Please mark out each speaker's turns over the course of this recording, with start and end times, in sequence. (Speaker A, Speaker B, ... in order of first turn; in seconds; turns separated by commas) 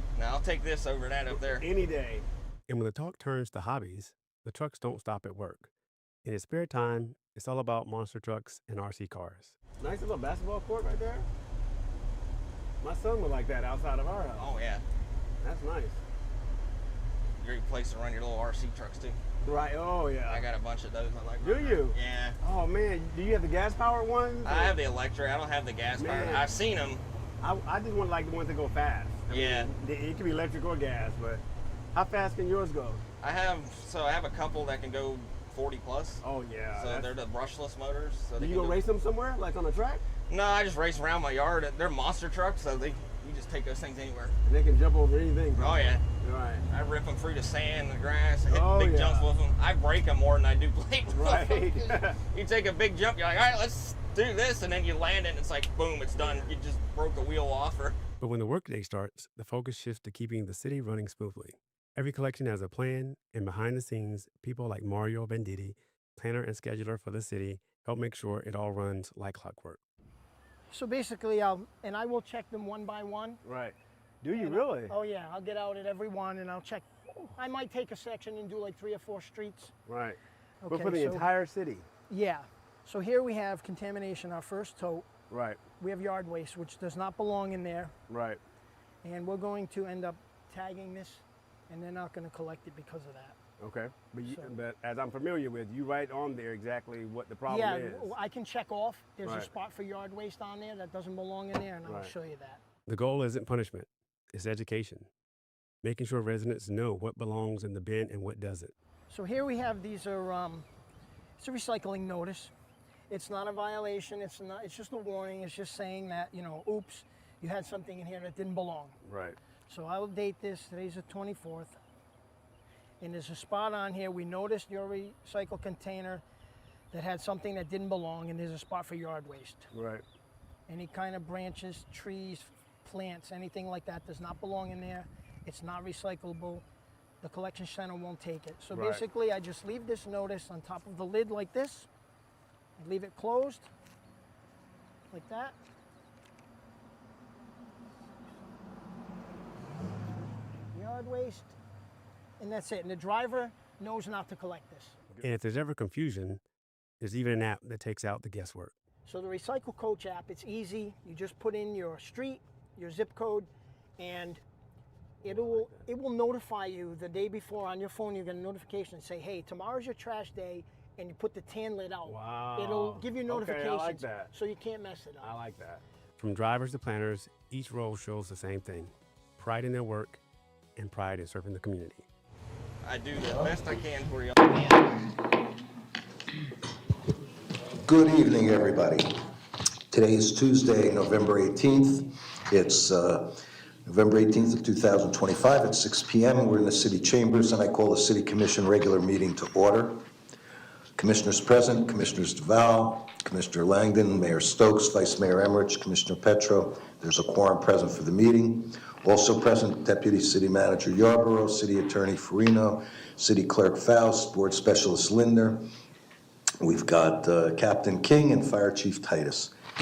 Speaker A: 0.2-1.7, Speaker B: 1.3-2.3, Speaker C: 2.7-5.7, Speaker C: 6.2-9.6, Speaker B: 9.8-11.3, Speaker B: 12.8-14.6, Speaker A: 14.4-14.8, Speaker B: 15.4-16.0, Speaker A: 17.4-19.2, Speaker B: 19.4-20.5, Speaker A: 20.3-22.4, Speaker B: 21.4-24.8, Speaker A: 24.4-27.0, Speaker B: 26.0-26.5, Speaker B: 27.4-31.4, Speaker A: 29.3-29.7, Speaker B: 31.9-33.0, Speaker A: 33.2-36.2, Speaker B: 36.2-37.1, Speaker A: 36.8-38.8, Speaker B: 38.4-40.0, Speaker A: 40.3-44.4, Speaker B: 44.5-46.6, Speaker A: 45.6-46.0, Speaker A: 46.7-51.7, Speaker B: 48.5-49.3, Speaker B: 51.1-52.2, Speaker A: 52.3-58.0, Speaker B: 56.2-56.5, Speaker C: 58.2-69.8, Speaker D: 70.7-73.4, Speaker B: 73.4-74.9, Speaker D: 74.3-79.7, Speaker B: 79.9-81.9, Speaker D: 80.6-81.3, Speaker D: 82.1-85.1, Speaker B: 85.3-85.6, Speaker D: 85.8-88.0, Speaker B: 88.1-88.4, Speaker D: 89.0-93.4, Speaker B: 93.6-98.1, Speaker D: 94.2-94.5, Speaker D: 97.5-102.6, Speaker B: 99.2-99.5, Speaker B: 101.8-102.1, Speaker C: 102.9-105.1, Speaker C: 105.8-108.7, Speaker D: 109.1-110.7, Speaker D: 111.4-112.5, Speaker D: 113.1-119.0, Speaker B: 119.0-119.4, Speaker D: 119.7-121.8, Speaker D: 123.0-126.2, Speaker D: 126.9-129.7, Speaker B: 129.7-130.0, Speaker D: 130.7-136.7, Speaker D: 137.2-141.9, Speaker B: 138.7-139.0, Speaker D: 142.8-143.7, Speaker D: 145.1-145.6, Speaker D: 150.7-151.6, Speaker D: 152.4-155.0, Speaker C: 155.2-156.4, Speaker C: 157.0-158.7, Speaker D: 159.1-164.4, Speaker D: 165.2-175.3, Speaker B: 165.3-165.8, Speaker B: 172.1-174.3, Speaker B: 175.2-175.8, Speaker C: 176.2-180.2, Speaker C: 180.8-182.1, Speaker A: 182.8-184.8, Speaker E: 187.8-189.2, Speaker E: 189.9-200.1, Speaker E: 201.0-215.7, Speaker E: 216.6-219.5